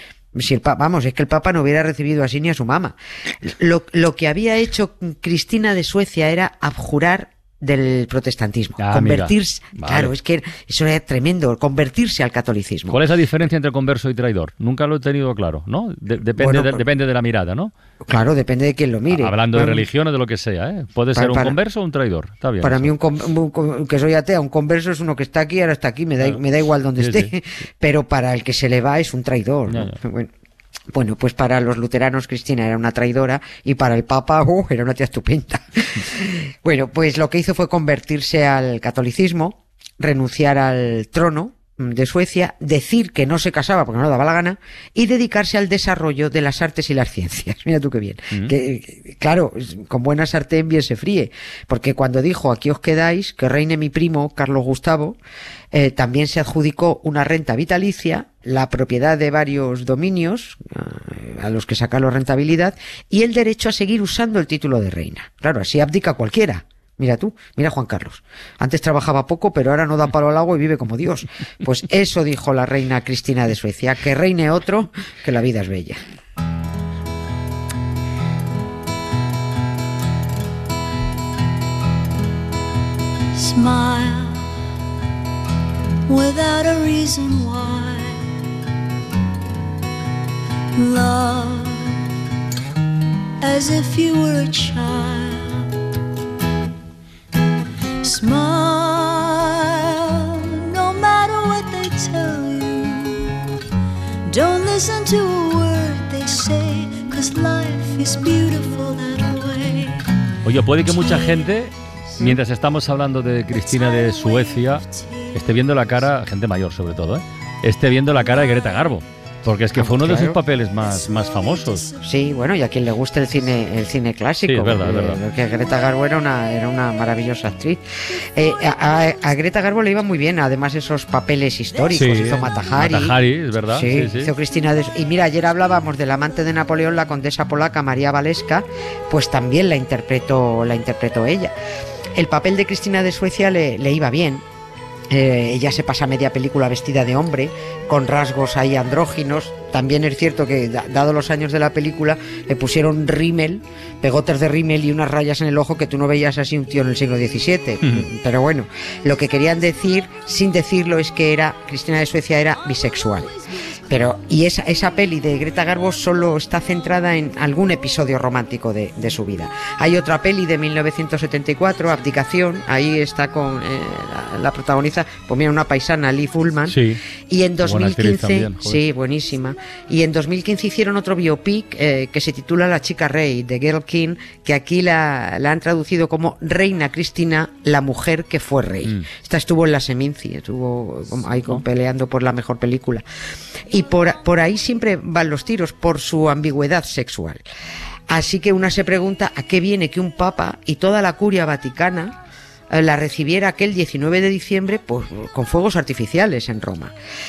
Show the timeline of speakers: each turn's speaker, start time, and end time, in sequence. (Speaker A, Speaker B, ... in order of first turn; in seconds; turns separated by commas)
Speaker A: 0.3-13.0, Speaker B: 8.8-10.1, Speaker B: 12.9-17.7, Speaker A: 16.4-16.9, Speaker A: 18.1-19.9, Speaker B: 19.1-22.9, Speaker A: 21.1-21.6, Speaker A: 22.6-30.3, Speaker B: 27.0-27.3, Speaker B: 29.7-30.0, Speaker A: 30.9-55.2, Speaker A: 55.7-76.0, Speaker C: 83.3-84.5, Speaker C: 86.1-88.3, Speaker C: 90.8-92.1, Speaker C: 93.4-95.7, Speaker C: 98.0-103.5, Speaker C: 104.3-110.2, Speaker B: 110.5-114.8, Speaker C: 110.9-111.5, Speaker C: 113.8-115.4, Speaker B: 115.4-121.9, Speaker A: 119.7-120.4, Speaker C: 121.2-121.8, Speaker A: 122.0-141.5, Speaker B: 124.5-125.2, Speaker B: 131.9-134.3, Speaker A: 142.2-144.4, Speaker A: 145.1-163.3, Speaker A: 163.9-193.1, Speaker B: 176.7-177.0, Speaker B: 177.6-178.8, Speaker A: 193.7-197.4, Speaker A: 198.1-202.2, Speaker A: 202.7-206.9